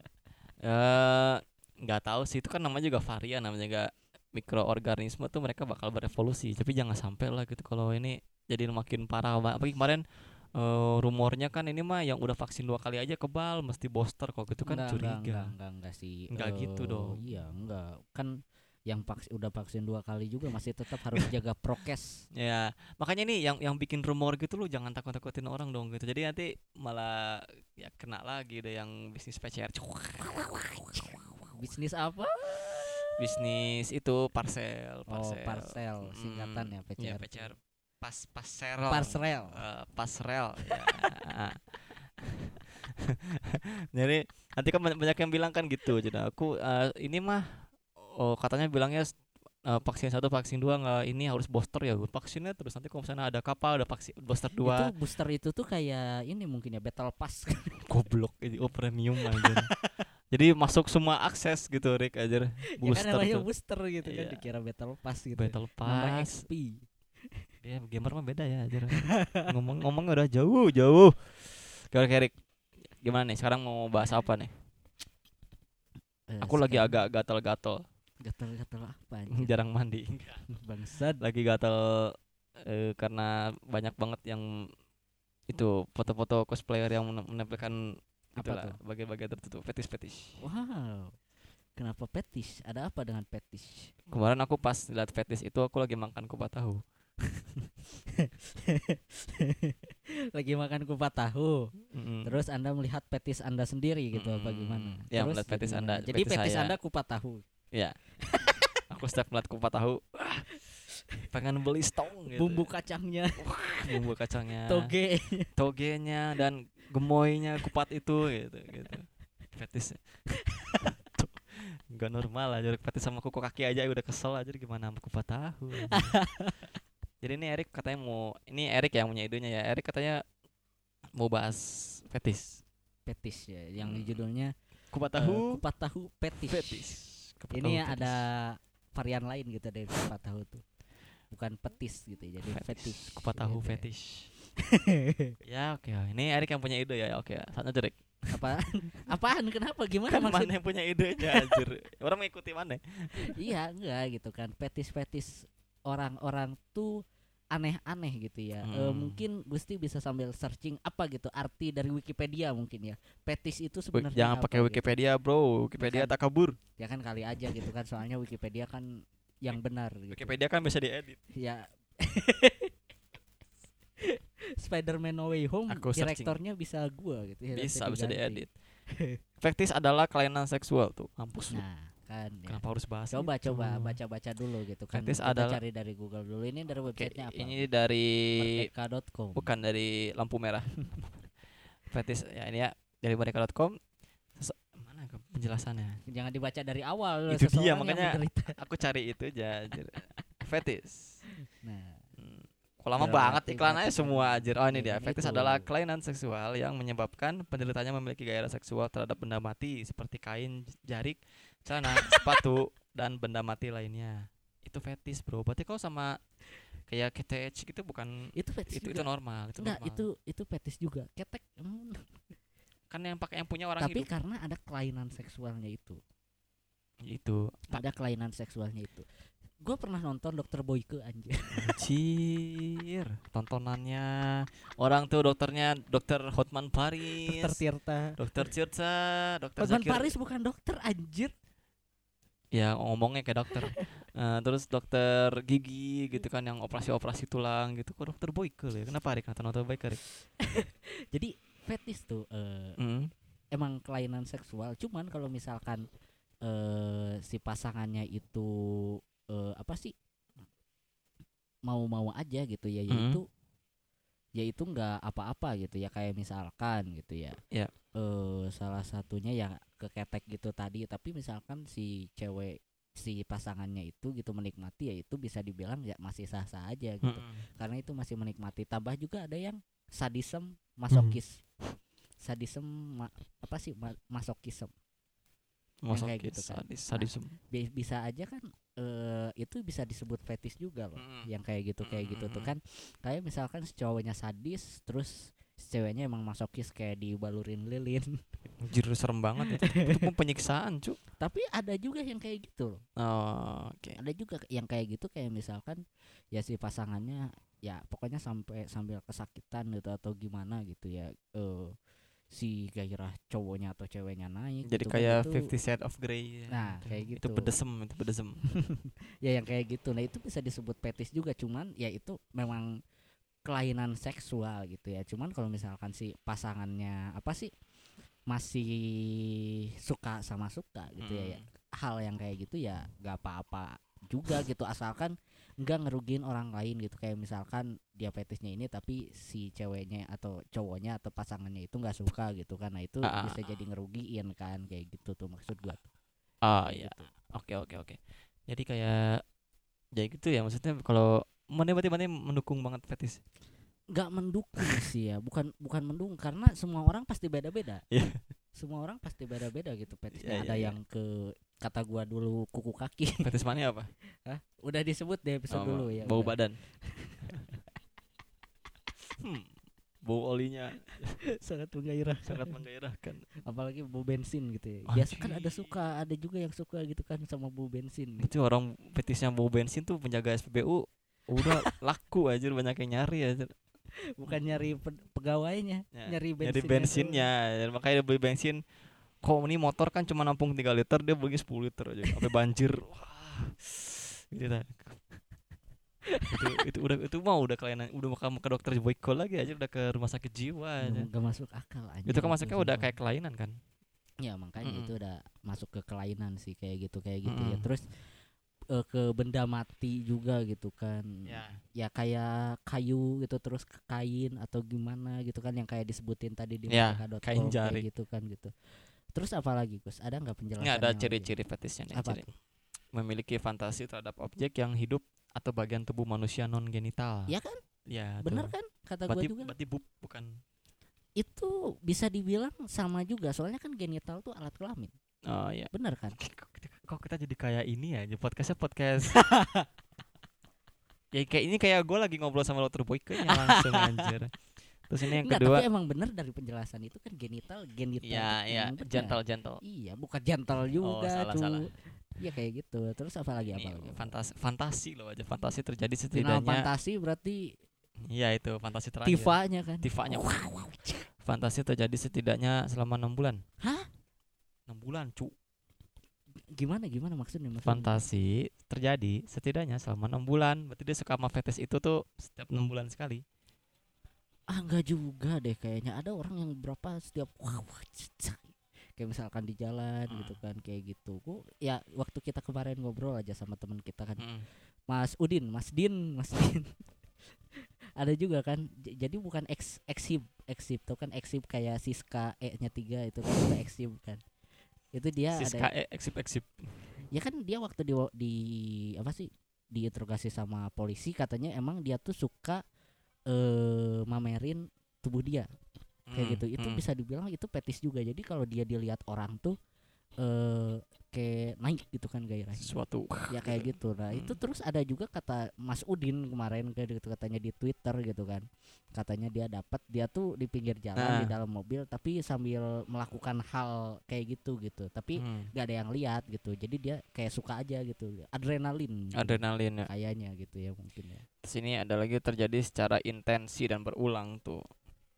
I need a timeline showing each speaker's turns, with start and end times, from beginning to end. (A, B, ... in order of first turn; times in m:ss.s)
0:00.6-0:10.0 A
0:10.6-0:15.5 A
0:14.6-0:22.2 B
0:16.3-0:17.2 A
0:22.3-0:31.6 A
0:31.6-0:33.2 B
0:33.2-0:41.6 A
0:35.1-0:37.5 B
0:38.9-0:39.6 B
0:42.2-0:49.1 A
0:49.7-0:54.9 A
0:54.6-0:57.8 B
0:57.9-0:59.7 A
0:59.3-0:59.8 B
1:00.3-1:03.4 A
1:02.8-1:06.9 B
1:04.0-1:04.4 A
1:05.4-1:06.4 A
1:07.6-1:12.4 A
1:09.0-1:09.5 B
1:13.0-1:14.5 A
1:16.3-1:17.0 B
1:16.4-1:17.8 A
1:18.2-1:19.5 B
1:19.3-1:20.4 A
1:20.5-1:21.2 B
1:21.2-1:24.7 A
1:25.5-1:27.8 A
1:28.4-1:28.8 B
1:28.4-1:30.4 A
1:30.4-1:31.2 B
1:31.8-1:33.9 B
1:34.1-1:36.8 A
1:38.1-1:41.7 B
1:41.9-1:42.4 A
1:42.2-1:47.4 B
1:44.1-1:46.8 A
1:47.7-1:48.0 A
1:48.3-1:48.8 B
1:48.9-1:50.5 A
1:50.9-1:51.2 B
1:51.3-1:52.7 A
1:52.3-1:54.1 B
1:53.4-1:54.9 A
1:54.7-1:55.5 B
1:55.6-2:00.0 A
2:00.4-2:00.9 B
2:00.8-2:06.2 A
2:05.9-2:06.6 B
2:07.2-2:10.2 A
2:11.2-2:12.6 A
2:13.1-2:14.5 B
2:13.8-2:14.2 A
2:14.9-2:15.6 A
2:15.1-2:17.0 B
2:16.5-2:18.2 A
2:17.5-2:20.6 B
2:21.3-2:23.9 B
2:22.4-2:24.3 A
2:24.6-2:25.4 B
2:25.4-2:28.5 A
2:28.3-2:30.6 B
2:30.1-2:33.4 A
2:31.2-2:31.6 B
2:33.2-2:37.0 B
2:37.5-2:44.9 B
2:38.6-2:39.2 A
2:43.9-2:46.6 A
2:45.8-2:46.2 B
2:46.8-2:50.4 B
2:50.1-2:51.2 A
2:51.3-2:52.7 B
2:54.0-2:59.2 B
2:55.7-2:56.4 A
2:57.5-2:58.5 A
2:59.4-3:01.6 A
3:01.5-3:07.6 B
3:02.5-3:04.0 A
3:04.9-3:05.6 A
3:06.9-3:08.7 A
3:08.4-3:09.5 B
3:09.4-3:10.7 A
3:11.9-3:13.8 A
3:14.4-3:16.0 A
3:16.1-3:18.6 B
3:17.3-3:21.2 A
3:21.6-3:22.0 B
3:22.2-3:36.2 A
3:23.0-3:25.7 B
3:36.9-3:40.0 A
3:38.4-3:42.1 B
3:42.9-3:44.1 A
3:43.8-3:46.0 B
3:47.0-3:47.8 A
3:47.7-3:49.1 B
3:49.6-3:51.8 B
3:51.5-3:57.6 A
3:57.2-3:58.5 B
3:58.2-4:00.1 A
3:59.6-4:01.3 B
4:02.5-4:10.0 A
4:03.5-4:03.9 B
4:10.4-4:12.8 B
4:12.8-4:13.1 A
4:13.5-4:15.9 B
4:16.4-4:19.9 B
4:21.7-4:23.2 B
4:22.9-4:23.2 A
4:24.4-4:27.4 B
4:28.0-4:41.4 B
4:37.0-4:37.4 A
4:40.9-4:41.2 A
4:42.2-4:44.7 B
4:45.8-4:47.4 A
4:45.9-4:58.2 B
4:51.0-4:51.3 A
4:51.8-4:52.5 A
4:58.6-5:01.0 A
4:59.4-5:00.0 B
5:01.2-5:02.8 B
5:03.0-5:04.0 A
5:04.0-5:05.8 B
5:06.3-5:11.7 B
5:12.3-5:15.5 B
5:14.7-5:18.4 A
5:16.5-5:17.5 B
5:18.6-5:22.8 B
5:23.5-5:27.5 B
5:28.3-5:45.9 B
5:31.0-5:31.4 A
5:43.0-5:43.4 A
5:46.4-5:49.2 A
5:46.5-5:47.1 B
5:50.0-5:53.2 A
5:53.9-5:57.8 B
5:54.6-5:54.8 A
5:57.9-5:58.2 A
5:58.6-6:03.3 B
6:00.1-6:00.8 A
6:03.2-6:03.9 A
6:04.3-6:07.6 B
6:05.5-6:06.6 A
6:09.2-6:09.5 A
6:10.0-6:11.1 A
6:11.2-6:12.6 B
6:12.3-6:13.3 A
6:13.4-6:18.3 B
6:14.9-6:15.7 A
6:18.2-6:23.5 A
6:21.4-6:21.7 B
6:24.2-6:27.2 B
6:25.9-6:28.6 A
6:29.2-6:35.2 A
6:36.1-6:36.5 B
6:36.3-6:41.1 A
6:40.8-6:42.9 B
6:42.1-6:43.6 A
6:44.2-6:47.8 B
6:44.6-6:44.9 A
6:47.2-6:47.7 A
6:48.7-6:58.5 B
6:51.3-6:51.6 A
6:56.7-6:57.8 A
6:59.2-7:01.3 B
7:00.6-7:02.3 A
7:01.9-7:02.3 B
7:02.9-7:07.3 A
7:07.3-7:07.6 B
7:07.9-7:08.5 A
7:08.2-7:09.5 B
7:09.1-7:10.4 A
7:11.2-7:14.9 B
7:15.3-7:19.2 A
7:15.7-7:16.2 B
7:19.1-7:19.7 B
7:21.1-7:24.3 A
7:23.2-7:24.1 B
7:24.9-7:25.7 A
7:25.1-7:34.1 B
7:28.0-7:29.6 A
7:30.8-7:31.7 A
7:33.5-7:36.7 A
7:36.1-7:37.5 B
7:38.0-7:40.3 A
7:39.0-7:41.1 B
7:41.2-7:43.4 A
7:43.6-7:43.9 B
7:44.7-7:45.3 A
7:46.6-7:48.0 B
7:47.6-7:53.2 A
7:54.5-8:04.2 B
8:00.1-8:00.4 A
8:04.2-8:04.5 A
8:04.9-8:06.8 B
8:08.0-8:14.2 B
8:14.9-8:15.7 B
8:15.3-8:16.6 A
8:17.1-8:22.6 B
8:23.3-8:25.5 B
8:26.1-8:26.8 A
8:26.1-8:29.6 B
8:30.2-8:32.7 B
8:32.6-8:34.4 A
8:33.3-8:51.2 B
8:41.0-8:41.3 A
8:45.2-8:45.5 A
8:49.2-8:49.9 A
8:51.4-8:54.6 A